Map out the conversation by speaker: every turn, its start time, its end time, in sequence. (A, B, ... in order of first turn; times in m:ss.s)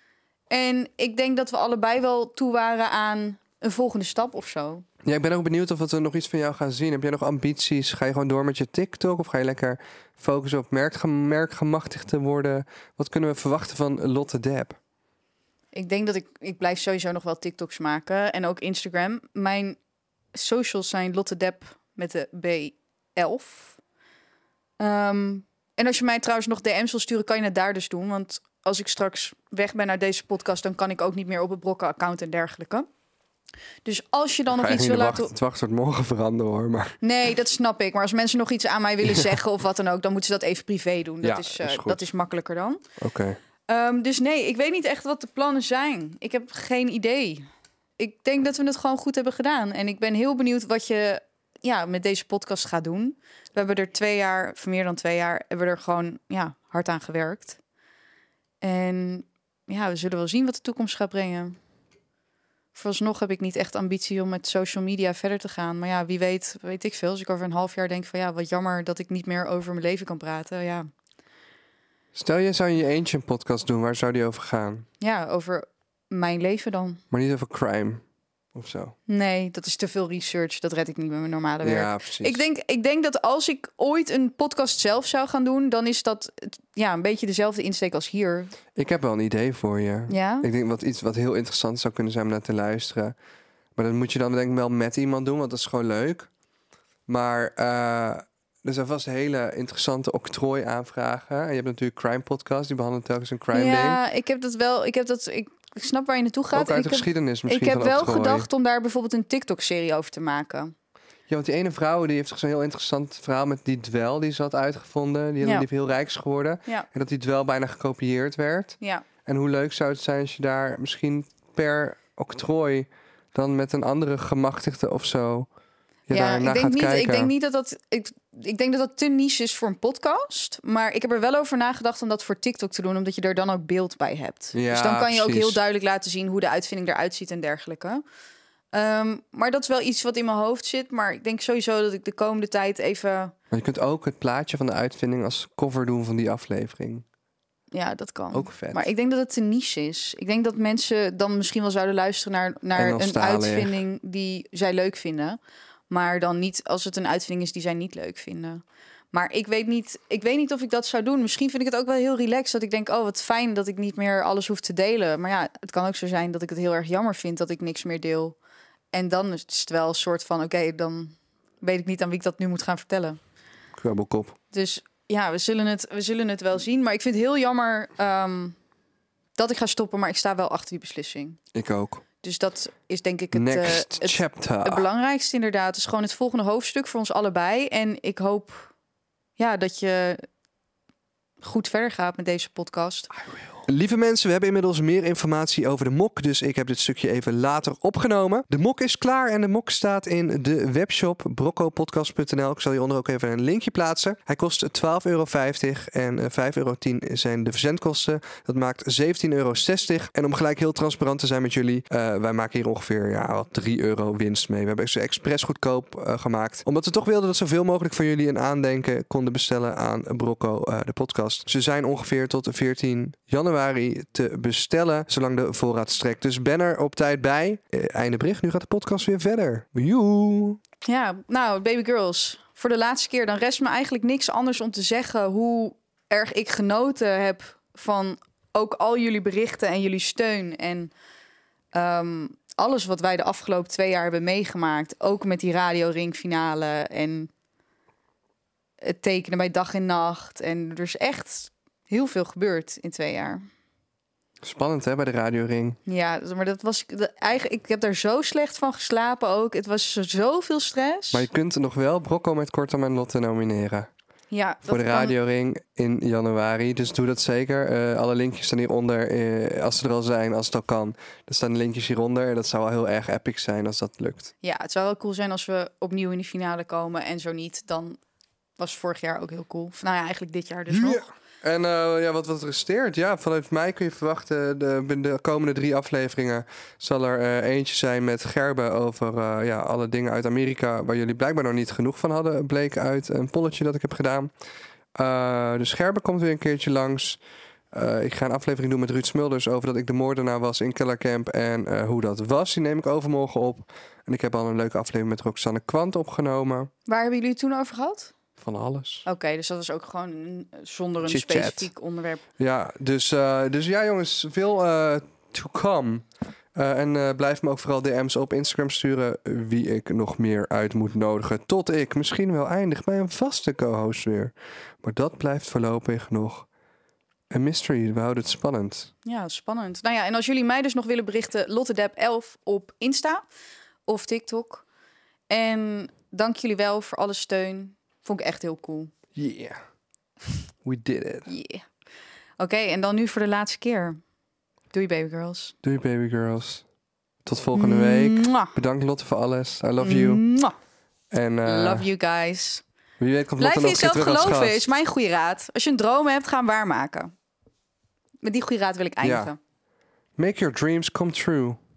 0:00.5-0:04.8 A
0:05.0-0:14.8 B
0:15.7-0:19.8 A
0:20.3-0:23.8 A
0:24.8-0:32.9 A
0:33.8-0:35.3 A
0:34.5-0:37.0 B
0:37.0-0:42.8 A
0:39.0-0:39.3 B
0:41.2-0:42.0 B
0:43.0-0:43.4 B
0:43.7-0:47.4 A
0:48.0-0:57.6 A
0:58.6-1:01.6 A
1:02.7-1:10.9 A
1:12.1-1:14.9 B
1:15.0-1:17.0 A
1:17.1-1:18.0 B
1:18.5-1:18.9 B
1:19.1-1:28.5 A
1:21.6-1:22.4 B
1:28.7-1:33.1 B
1:30.1-1:30.5 A
1:33.8-1:36.3 B
1:37.1-1:44.0 B
1:43.5-1:50.7 A
1:46.5-1:48.5 B
1:51.3-2:05.5 B
1:55.4-1:55.7 A
1:58.8-1:59.0 A
2:06.1-2:07.3 B
2:06.1-2:18.0 A
2:14.5-2:15.6 B
2:18.7-2:23.3 A
2:23.5-2:27.0 B
2:27.7-2:35.4 A
2:28.3-2:28.9 B
2:32.7-2:33.8 B
2:35.9-2:48.4 A
2:48.9-2:53.2 A
2:53.8-2:54.4 B
2:54.5-2:58.6 A
2:59.4-3:01.4 A
3:01.5-3:02.0 B
3:02.2-3:08.7 A
3:03.3-3:04.8 B
3:09.4-3:10.2 A
3:11.4-3:13.1 A
3:13.5-3:50.6 B
3:50.8-4:00.9 A
4:01.7-4:07.3 A
4:08.8-4:13.4 A
4:14.4-4:15.8 B
4:15.9-4:21.3 A
4:21.1-4:23.9 B
4:24.3-4:25.1 A
4:24.6-4:34.3 B
4:34.4-4:38.0 A
4:38.6-4:41.0 A
4:40.7-4:54.3 B
4:54.9-4:57.2 B
4:57.7-5:06.7 B
5:06.8-5:08.1 A
5:08.4-5:09.0 B
5:09.0-5:12.2 A
5:11.0-5:11.7 B
5:12.4-5:26.5 B
5:27.3-5:28.9 B
5:29.0-5:33.2 A
5:33.9-5:34.6 A
5:35.3-5:38.9 A
5:39.1-5:39.6 B
5:40.6-5:41.3 B
5:41.3-5:41.6 A
5:42.4-5:44.0 A
5:44.7-5:45.5 A
5:45.6-5:46.6 B
5:47.2-5:50.2 B
5:47.5-5:48.5 A
5:49.8-5:50.5 A
5:51.1-5:51.9 B
5:51.4-5:52.6 A
5:53.0-5:54.6 B
5:53.4-5:57.1 A
5:58.2-5:59.4 A
5:59.0-5:59.3 B
6:00.2-6:01.6 B